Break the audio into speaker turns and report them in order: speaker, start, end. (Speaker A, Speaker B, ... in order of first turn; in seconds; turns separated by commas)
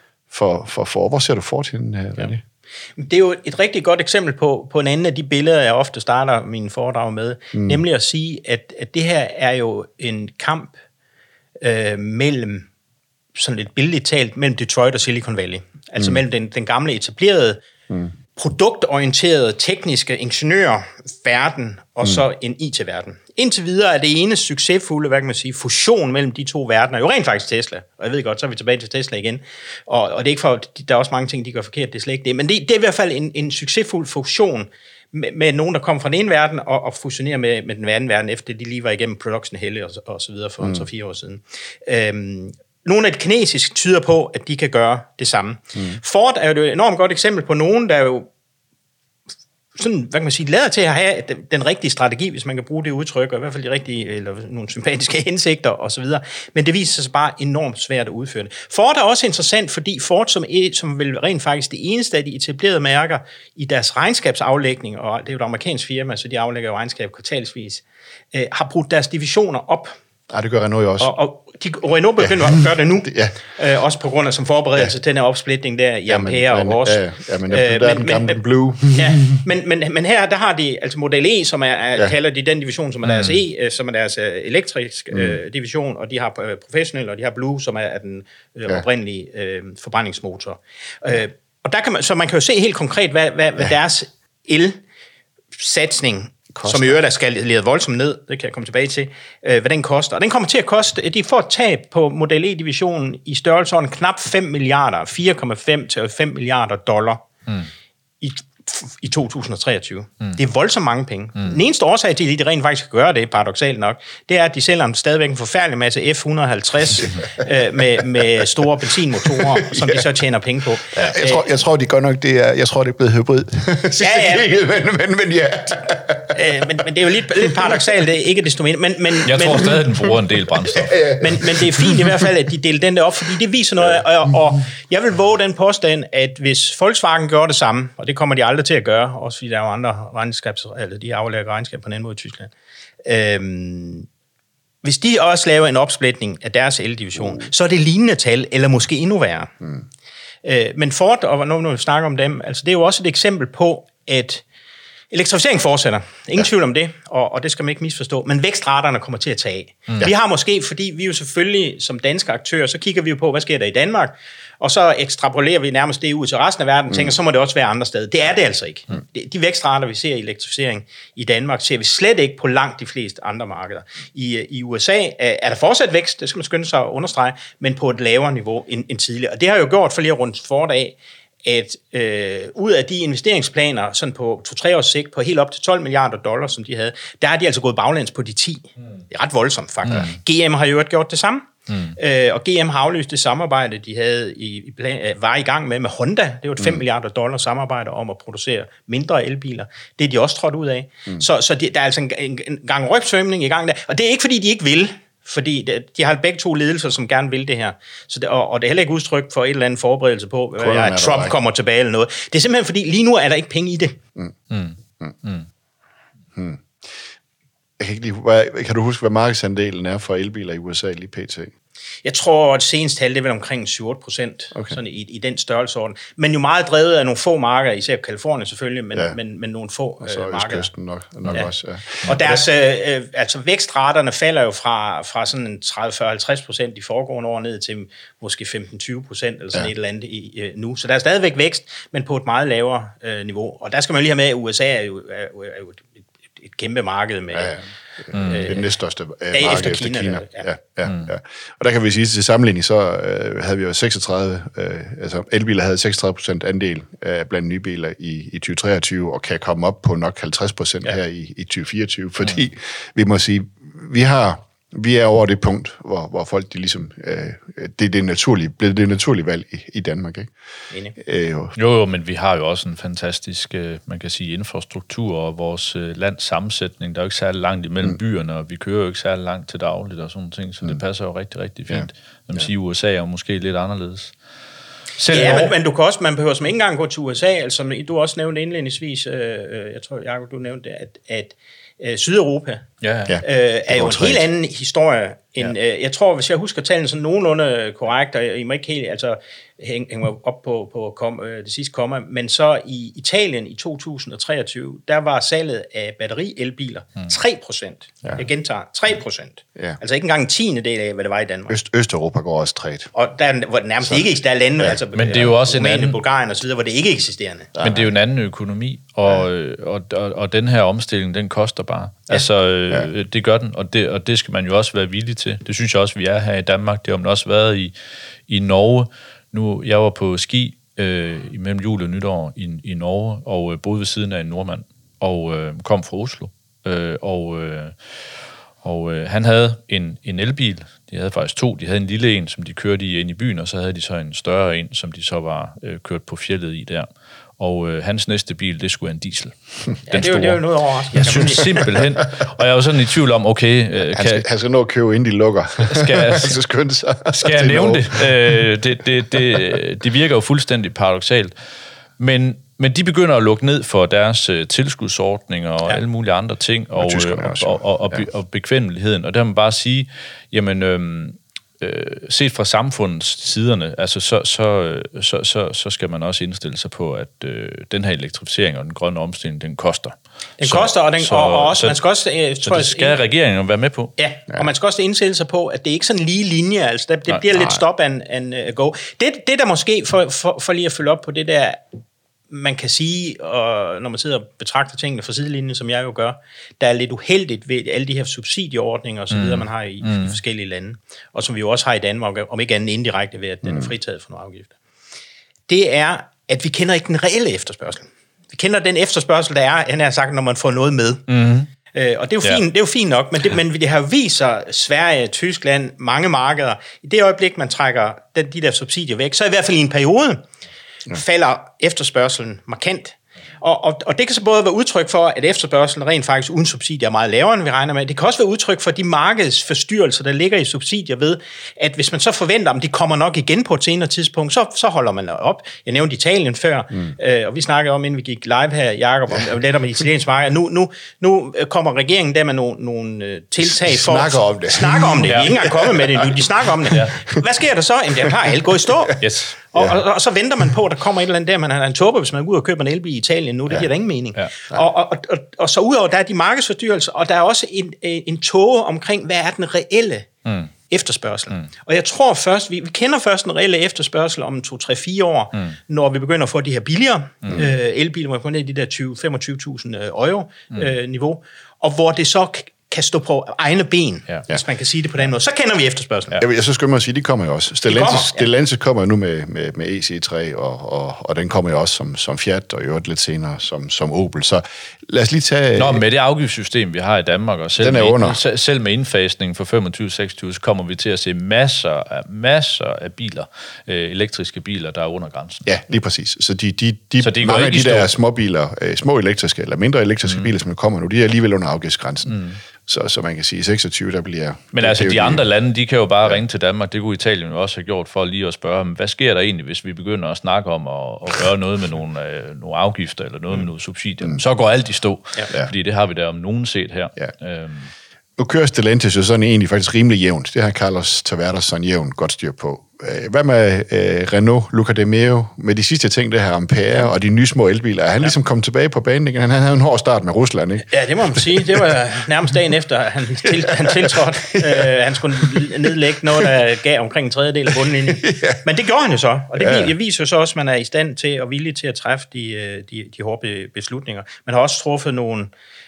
Speaker A: 0.3-2.4, Speaker B: 3.0-10.8, Speaker A: 7.5-7.8, Speaker B: 11.6-12.7, Speaker B: 13.3-17.6, Speaker B: 18.3-48.3, Speaker B: 49.8-69.9, Speaker A: 70.3-71.1, Speaker B: 71.0-94.8, Speaker A: 72.2-73.4, Speaker A: 76.1-79.4, Speaker C: 83.0-83.4, Speaker A: 85.1-85.4, Speaker B: 95.5-107.3, Speaker A: 96.5-97.0, Speaker B: 108.2-121.5, Speaker A: 119.3-120.0, Speaker A: 120.9-126.7, Speaker B: 124.0-124.5, Speaker B: 126.3-129.8, Speaker A: 127.4-127.7, Speaker C: 129.2-131.0, Speaker A: 130.8-132.3, Speaker B: 131.0-142.5, Speaker B: 143.0-144.1, Speaker B: 144.8-149.5, Speaker B: 150.4-154.4, Speaker B: 155.1-214.0, Speaker C: 189.9-190.2, Speaker C: 191.7-191.9, Speaker A: 210.6-211.3, Speaker C: 214.5-215.5, Speaker A: 216.3-216.7, Speaker A: 217.8-221.5, Speaker B: 222.0-230.7, Speaker A: 230.0-232.4, Speaker B: 232.0-247.6, Speaker A: 247.3-270.3, Speaker C: 248.1-248.5, Speaker B: 248.1-248.7, Speaker B: 249.3-250.4, Speaker A: 270.9-271.5, Speaker C: 271.6-284.1, Speaker A: 281.7-282.5, Speaker C: 285.0-285.5, Speaker B: 285.1-292.6, Speaker C: 292.8-293.2, Speaker A: 293.1-294.3, Speaker B: 293.2-311.5, Speaker A: 311.5-312.9, Speaker B: 312.9-317.5, Speaker C: 314.9-316.0, Speaker A: 317.6-317.8, Speaker C: 317.6-327.7, Speaker C: 328.3-337.7, Speaker C: 338.6-354.2, Speaker B: 349.9-351.7, Speaker A: 353.9-358.4, Speaker C: 355.7-356.4, Speaker C: 357.2-361.3, Speaker C: 362.0-381.8, Speaker A: 366.8-368.0, Speaker B: 380.4-383.0, Speaker C: 382.4-383.9, Speaker B: 384.0-391.6, Speaker B: 392.3-404.5, Speaker C: 399.1-400.2, Speaker B: 405.5-411.1, Speaker C: 411.1-411.5, Speaker B: 411.6-420.2, Speaker B: 420.9-460.1, Speaker A: 443.4-446.1, Speaker C: 445.1-445.3, Speaker C: 446.7-446.9, Speaker A: 448.2-448.9, Speaker C: 449.0-449.3, Speaker A: 449.5-449.8, Speaker C: 460.2-460.5, Speaker B: 460.7-476.2, Speaker A: 476.2-485.8, Speaker B: 477.7-478.3, Speaker C: 485.6-495.5, Speaker A: 487.6-488.2, Speaker A: 495.4-505.2, Speaker C: 497.0-498.0, Speaker C: 502.1-502.4, Speaker C: 504.5-517.7, Speaker A: 518.2-531.7, Speaker B: 530.7-545.3, Speaker A: 533.4-534.7, Speaker A: 538.0-538.4, Speaker A: 539.4-539.7